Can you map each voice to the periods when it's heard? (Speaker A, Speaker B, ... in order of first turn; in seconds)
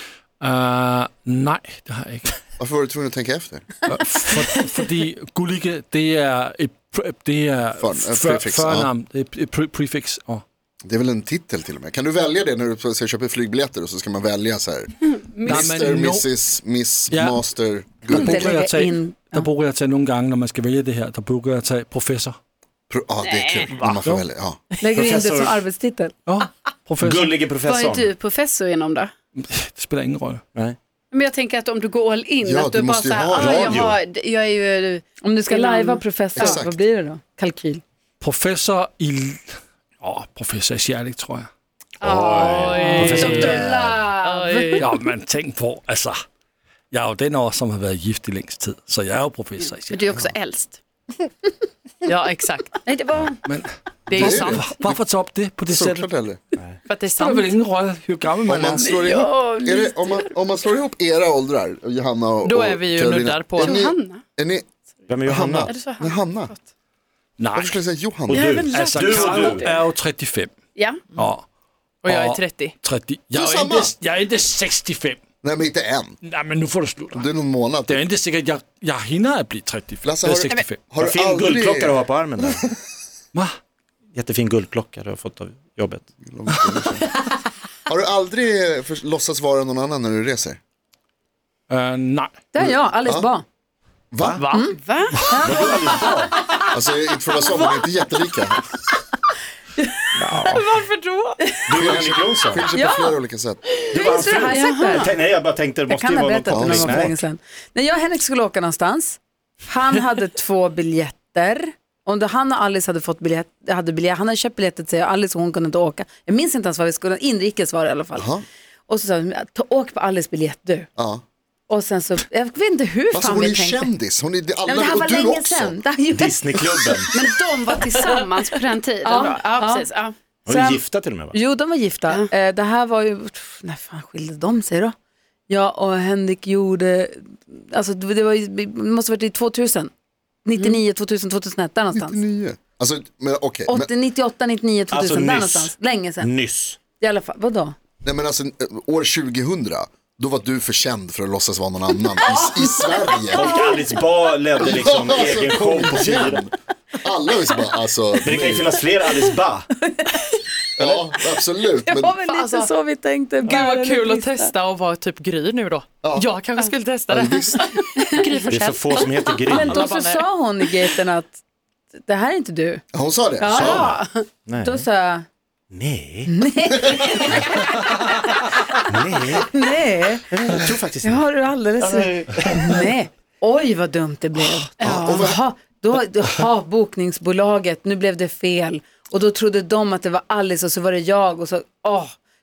Speaker A: 0.4-2.4, 3.9-10.4, 15.4-16.3, 17.1-17.4, 18.1-22.4, 23.7-24.2, 26.3-27.3, 29.4-30.4, 38.2-41.5, 43.1-43.6, 44.8-46.2, 46.9-50.3, 53.5-56.1, 57.2-59.0, 67.4-67.8, 68.7-70.5, 71.2-71.5, 72.0-75.2, 76.2-77.2, 77.9-80.8, 91.7-92.3
Speaker B: 2.6-3.7, 7.8-8.9, 10.8-18.6, 22.9-24.6, 32.4-34.0, 36.4-36.8, 54.1-55.0, 55.7-56.4, 58.5-64.7, 65.2-66.5, 67.5-68.5, 73.3-74.0, 75.4-76.2, 77.1-78.0, 80.0-82.5, 86.3-87.1, 87.9-90.6, 92.6-93.3, 94.1-94.4, 96.7-98.8, 101.7-103.6, 106.5-107.1, 118.2-118.4, 121.0-121.2, 123.1-125.8, 141.9-143.9, 148.0-153.6, 154.6-158.8, 160.8-162.2, 166.0-166.3, 167.1-167.6, 172.9-174.0, 184.8-185.4
Speaker C: 15.2-15.7, 23.2-23.7, 27.6-29.1, 31.1-36.6, 49.6-50.8, 52.9-53.4, 58.8-60.3, 63.6-64.2, 65.7-66.6, 68.3-68.7, 69.2-69.8, 70.8-71.0, 94.7-95.8, 104.5-105.1, 127.1-130.1
Speaker D: 18.1-19.5, 24.8-26.1, 35.2-37.8, 42.1-44.8, 92.5-93.5, 94.5-95.8, 102.7-103.2, 103.9-105.1, 105.9-118.3, 118.9-120.9, 121.7-123.9, 124.7-127.2, 129.0-129.9, 130.5-134.9, 135.5-139.9, 140.4-142.2, 143.7-146.3, 147.0-147.8, 152.3-152.9, 159.8-160.3, 161.8-164.5, 169.5-171.4, 172.0-172.8, 173.4-175.3, 176.3-178.1, 179.4-192.2
Speaker E: 24.9-25.6, 27.0-28.1, 33.4-34.0, 42.0-44.0, 65.1-65.7, 68.3-69.7, 81.0-82.7, 84.1-86.0, 94.2-94.5, 95.4-96.3, 100.2-100.6, 101.7-102.6, 103.9-107.2, 126.2-127.1, 130.5-131.4, 144.9-146.8, 153.3-156.4, 158.2-159.7, 168.5-169.9, 173.6-174.8, 175.7-176.3, 177.3-179.5, 180.3-181.2, 181.8-182.8
Speaker F: 42.1-43.5, 44.2-44.9, 52.0-52.8, 54.1-54.8, 56.9-57.6, 62.5-63.8, 68.4-69.5, 72.0-72.8, 100.3-101.4, 162.2-162.7, 163.4-170.7